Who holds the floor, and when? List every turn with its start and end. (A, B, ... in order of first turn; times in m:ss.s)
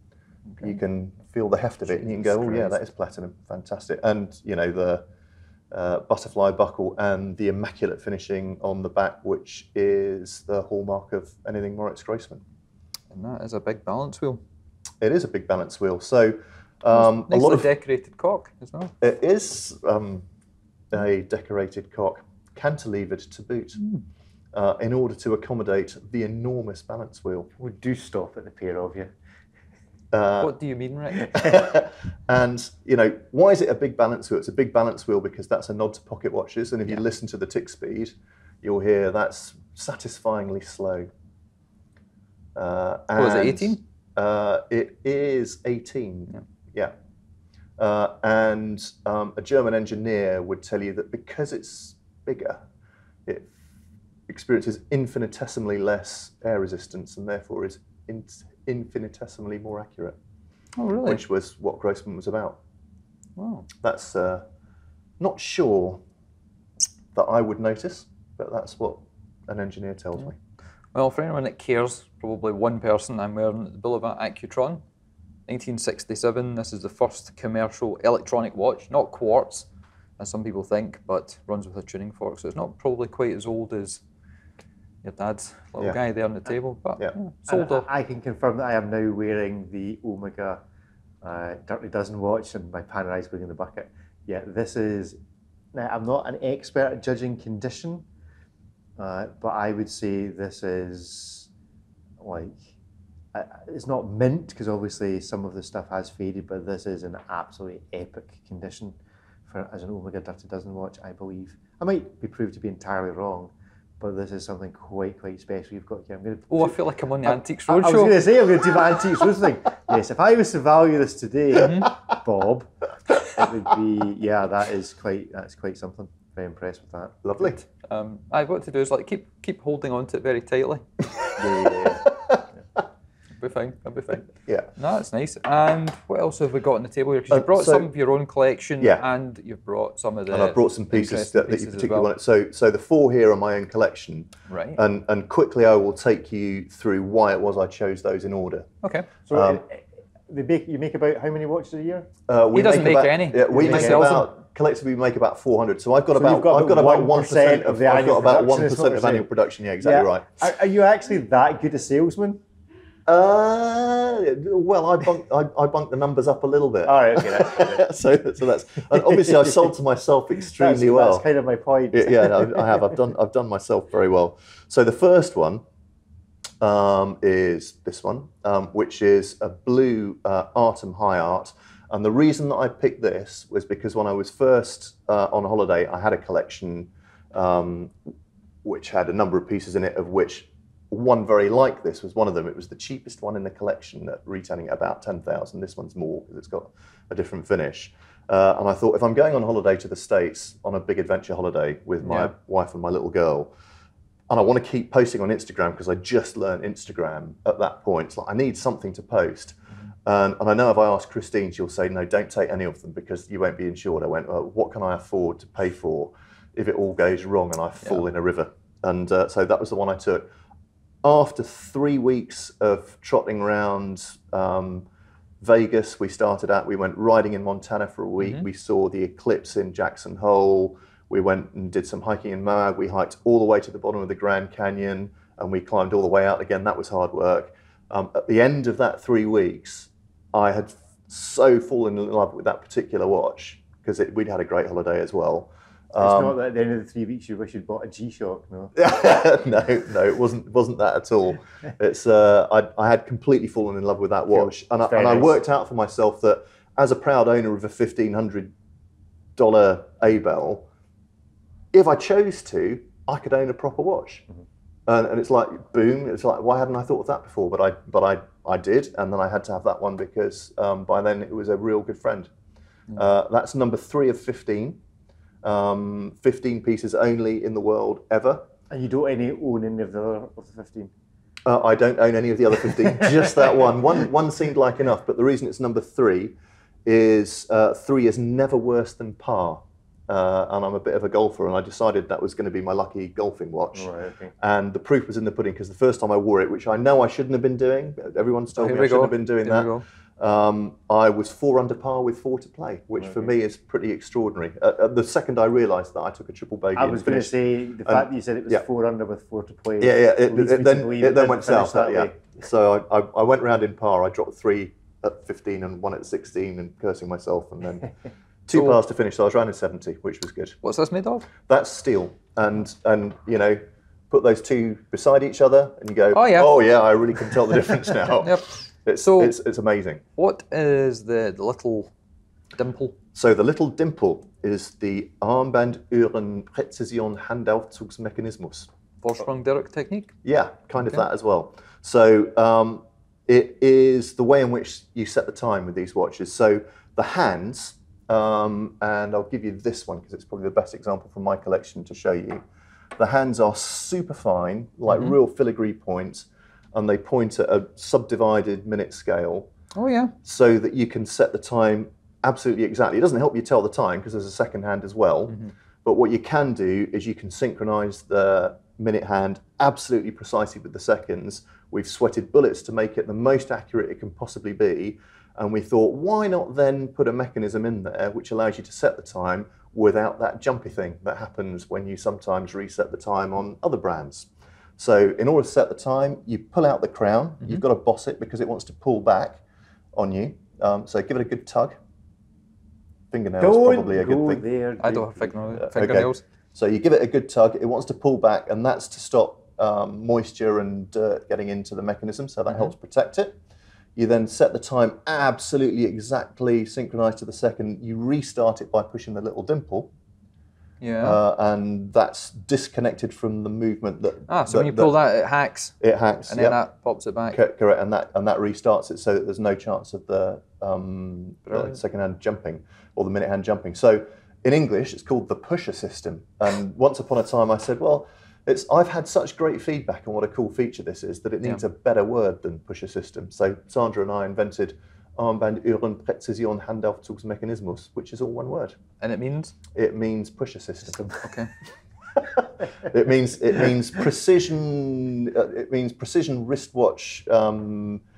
0:00.6-0:05.0 A
0:02.0-0:02.8 B
0:05.7-0:12.4 A
0:13.1-0:14.4 B
0:15.0-0:17.7 A
0:16.9-0:18.9 B
0:19.0-0:20.2 A
0:20.9-0:23.8 A
0:24.5-0:27.5 A
0:27.6-0:29.1 C
0:30.1-0:30.5 A
0:30.4-0:31.5 B
0:31.2-0:41.1 A
0:42.5-0:46.9 A
0:43.1-0:43.8 B
0:47.8-0:52.6 A
0:53.2-0:53.5 A
0:54.3-1:00.2 A
1:00.8-1:01.2 B
1:01.0-1:02.6 A
1:03.4-1:03.7 B
1:03.8-1:04.4 A
1:05.2-1:06.0 A
1:07.1-1:10.4 A
1:10.9-1:14.8 B
1:15.5-1:19.6 B
1:20.2-1:24.0 B
1:25.0-1:27.8 B
1:27.5-1:30.6 C
1:31.2-1:35.2 C
1:35.7-1:38.0 C
1:39.0-1:41.5 C
1:42.2-1:42.7 C
1:43.3-1:49.0 C
1:49.5-2:07.2 C
1:56.5-1:58.2 B
2:01.6-2:01.9 B
2:07.2-2:07.6 A
2:07.8-2:10.8 B
2:11.2-2:12.4 A
2:11.4-2:12.1 C
2:13.4-2:22.1 B
2:14.4-2:14.7 A
2:17.3-2:17.9 A
2:20.3-2:28.7 A
2:24.5-2:24.8 B
2:28.8-2:29.1 B
2:29.3-2:32.1 C
2:29.3-2:29.6 A
2:32.3-2:40.3 A
2:32.5-2:34.2 B
2:33.5-2:34.0 C
2:36.1-2:42.4 C
2:43.1-2:51.2 A
2:46.8-2:47.9 C
2:49.1-2:49.6 C
2:50.5-2:52.9 C
2:51.9-2:55.6 A
2:56.6-3:08.0 A
3:08.6-3:23.5 A
3:22.0-3:22.3 B
3:24.3-3:40.3 A
3:41.0-3:44.8 A
3:45.4-4:06.4 A
3:48.2-3:48.4 B
4:06.0-4:08.8 C
4:08.8-4:18.5 A
4:14.4-4:15.4 C
4:19.4-4:20.7 A
4:21.7-4:24.2 A
4:24.9-4:32.3 A
4:32.9-4:34.8 A
4:35.4-4:38.5 A
4:38.7-4:40.9 C
4:41.4-5:08.6 A
4:53.7-4:54.3 C
4:58.5-4:59.8 B
5:03.0-5:03.3 C
5:06.7-5:12.2 C
5:09.8-5:17.9 A
5:18.5-5:20.6 A
5:18.5-5:18.8 B
5:20.6-5:21.3 B
5:21.4-5:30.0 A
5:26.1-5:26.6 B
5:28.2-5:28.5 B
5:29.0-5:29.3 B
5:30.2-5:31.9 B
5:32.6-5:33.0 B
5:33.1-5:38.7 A
5:39.0-5:40.2 B
5:40.2-5:52.4 A
5:53.0-5:59.5 A
5:54.9-5:55.2 B
5:59.7-6:00.1 B
6:00.2-6:29.4 A
6:29.9-6:31.8 A
6:33.1-6:34.4 A
6:33.4-6:35.4 C
6:34.8-6:36.2 B
6:35.6-6:43.4 A
6:44.0-6:49.9 A
6:50.8-6:51.2 B
6:51.0-6:54.9 A
6:54.3-6:55.8 B
6:55.8-6:56.6 A
6:56.3-6:57.4 B
6:57.3-7:18.8 A
7:01.5-7:01.8 B
7:19.0-7:19.5 B
7:19.7-7:21.2 A
7:21.2-7:21.5 B
7:22.2-7:28.0 A